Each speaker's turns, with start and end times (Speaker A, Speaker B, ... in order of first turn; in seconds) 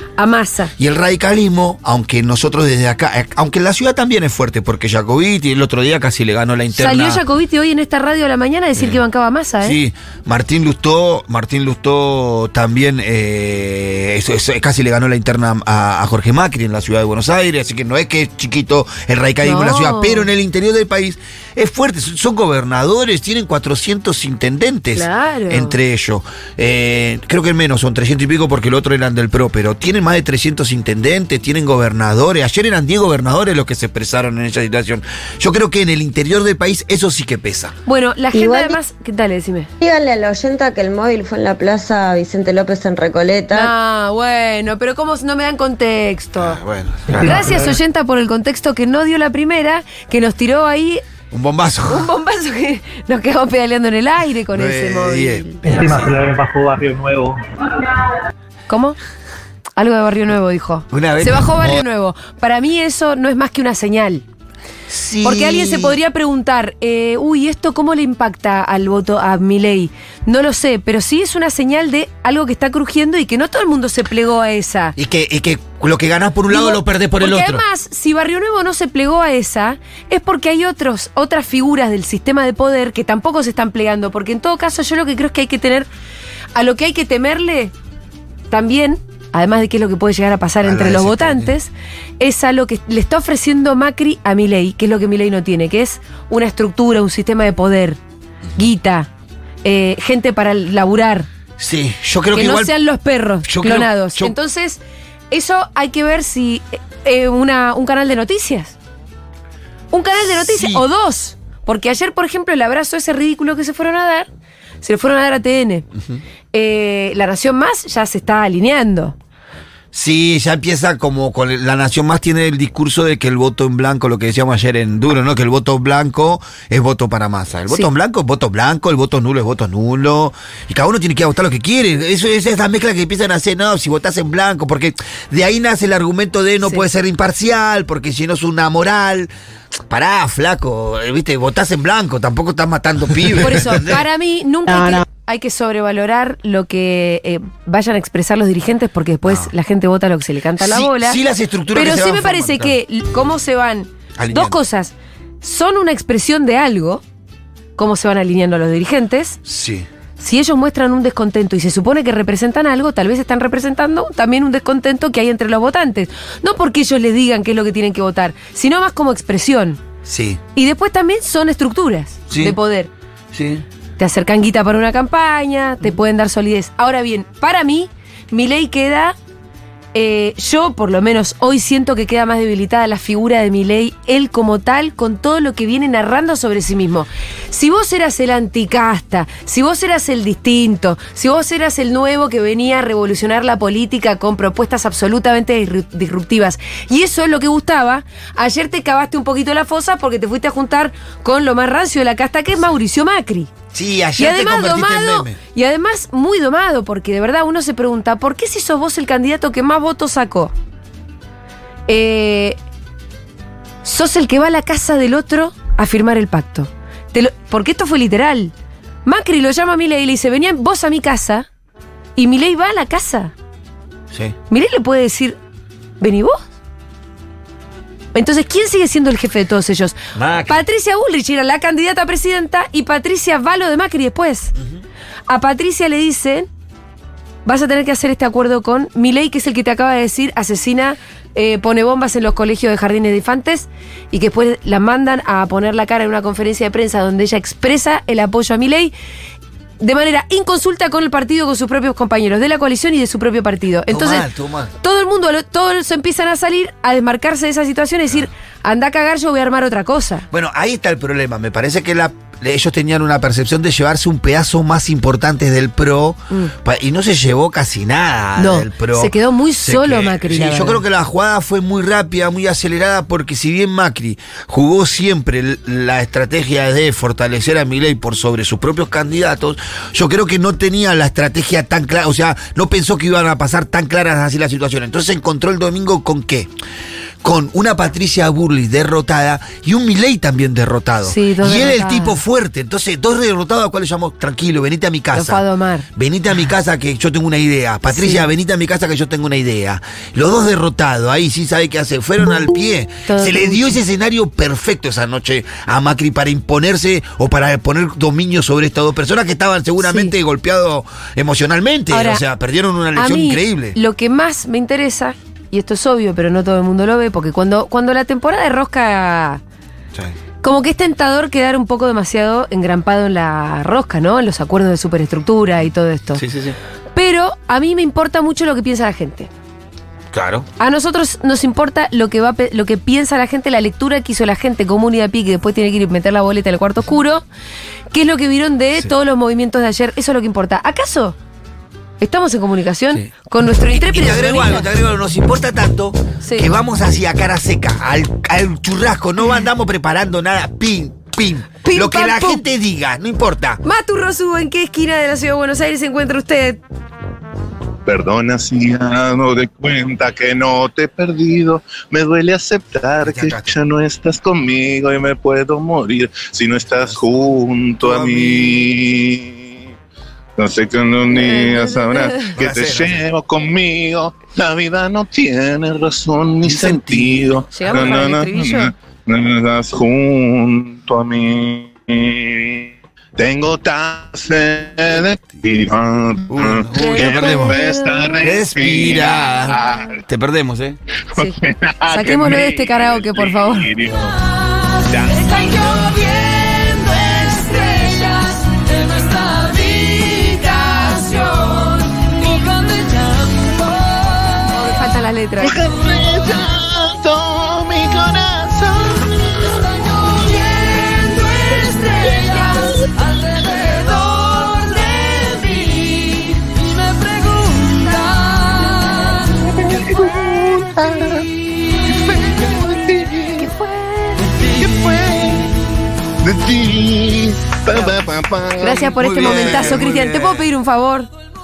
Speaker A: 0.2-0.7, 6.7-9.8, 19.4-20.3, 24.9-25.8, 37.9-39.7, 43.5-46.6, 47.2-51.0, 51.9-55.4, 58.7-59.0, 59.8-64.2, 65.2-75.0, 76.5-85.9, 86.5-87.7, 88.5-98.0, 98.6-99.1, 99.6-101.3, 102.3-108.8, 109.9-114.3, 114.8-115.9, 116.5-119.2, 143.4-151.2, 151.7-157.0, 157.8-159.4, 160.2-169.8, 170.6-172.9, 174.0-179.2, 179.9-203.5, 204.2-210.5, 211.9-212.6, 213.8-218.5, 219.1-221.5, 222.2-223.3, 224.5-225.4, 226.0-226.4, 228.1-234.5, 235.3-236.5, 237.5-248.9, 249.8-254.3, 254.8-260.3, 268.4-270.8, 291.1-292.2, 295.1-295.9, 297.9-298.2, 303.1-303.8, 309.8-310.1, 311.9-312.2, 313.0-319.4, 320.4-326.2, 326.9-329.3, 330.6-337.2, 337.9-341.2, 342.0-344.7, 346.2-346.5, 351.6-352.4, 353.6-356.6, 371.1-372.4, 377.5-378.7, 386.8-388.2, 391.9-393.7, 404.5-405.6, 412.1-412.3, 423.4-424.3, 428.6-431.1
Speaker B: 0.8-7.2, 9.6-37.8, 46.4-47.7, 51.3-52.1, 54.5-56.2, 60.9-61.8, 64.9-66.0, 75.0-77.6, 90.6-91.5, 101.6-102.7, 103.5-104.3, 110.3-110.8, 116.0-116.2, 119.9-139.3, 139.9-144.1, 149.2-149.5, 150.6-152.8, 154.2-154.6, 159.4-159.9, 170.1-170.4, 172.3-172.6, 173.3-173.6, 203.7-205.4, 230.2-230.6, 253.9-254.7, 260.3-286.5, 287.2-295.4, 296.0-313.8, 326.2-326.6, 330.1-330.5, 343.6-353.6, 363.0-363.6, 367.8-368.7, 372.4-373.0, 376.4-377.4, 386.3-387.6, 388.2-390.8, 428.9-430.5
Speaker C: 38.3-38.8, 39.8-43.7
Speaker D: 47.1-47.7, 55.6-57.4
Speaker E: 357.9-369.6, 370.4-390.0, 391.1-394.2, 394.9-395.6, 405.4-409.5, 411.9-412.4, 413.7-414.1, 419.5-421.3, 421.9-423.5, 424.6-425.5, 426.2-429.8